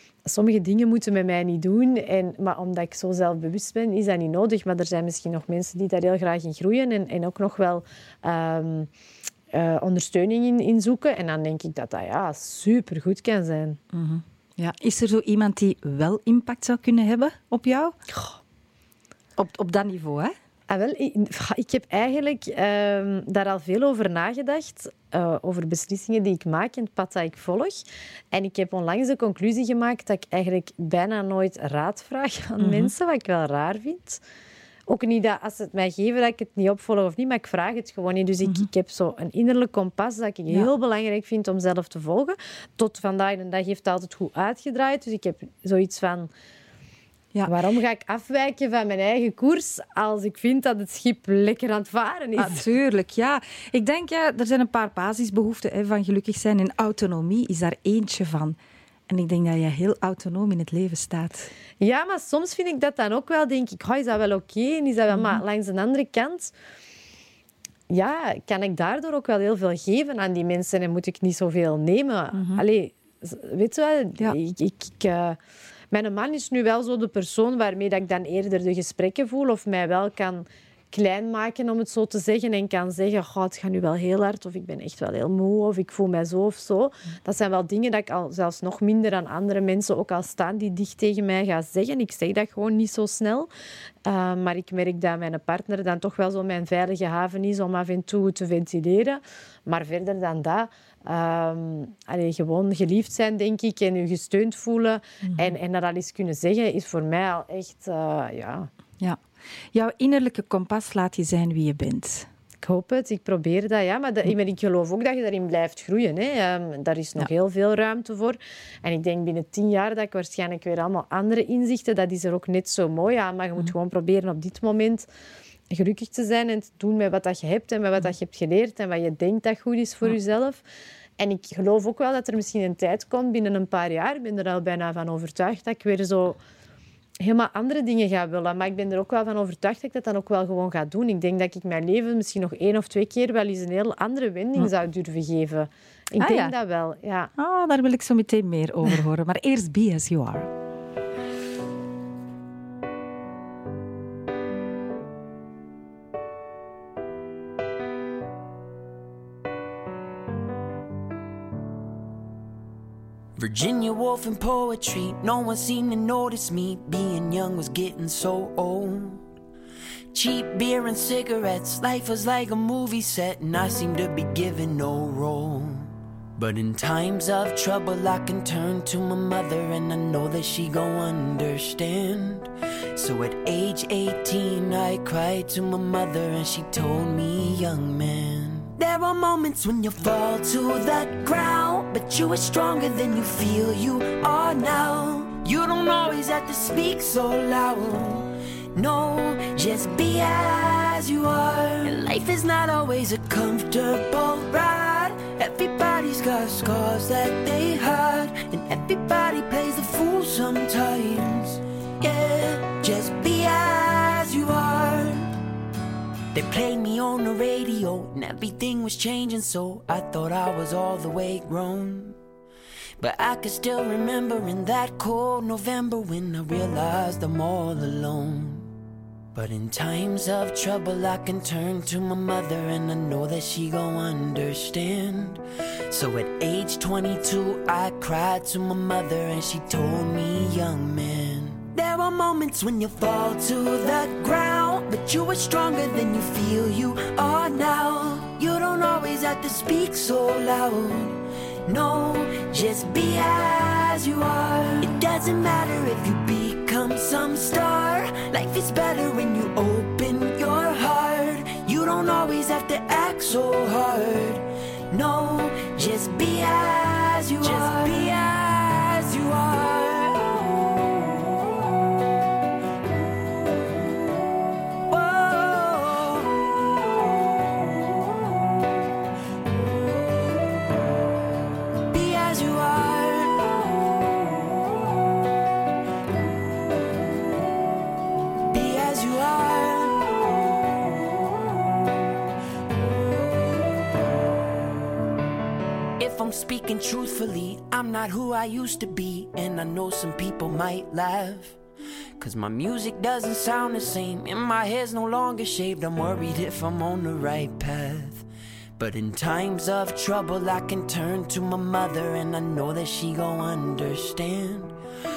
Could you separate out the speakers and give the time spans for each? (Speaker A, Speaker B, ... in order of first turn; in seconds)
Speaker A: 0.2-8.9, 9.5-13.8, 20.7-34.2, 34.9-46.3, 47.5-52.6, 61.8-66.5, 67.9-75.4, 75.9-93.5, 94.0-108.7, 112.6-125.1, 125.7-130.6, 131.2-136.4, 137.2-147.3
Speaker B: 13.9-17.9, 19.4-20.3, 32.6-32.9, 52.4-58.6, 59.1-61.5, 65.1-65.4, 72.3-72.6, 105.2-105.5, 109.7-112.3, 146.2-146.5, 147.4-150.5
Speaker C: 163.3-169.2, 170.1-215.3, 216.3-222.2, 223.0-228.7, 229.3-270.7, 274.9-276.3, 281.9-283.9, 288.5-290.2, 296.0-301.6, 302.2-308.2, 308.8-314.7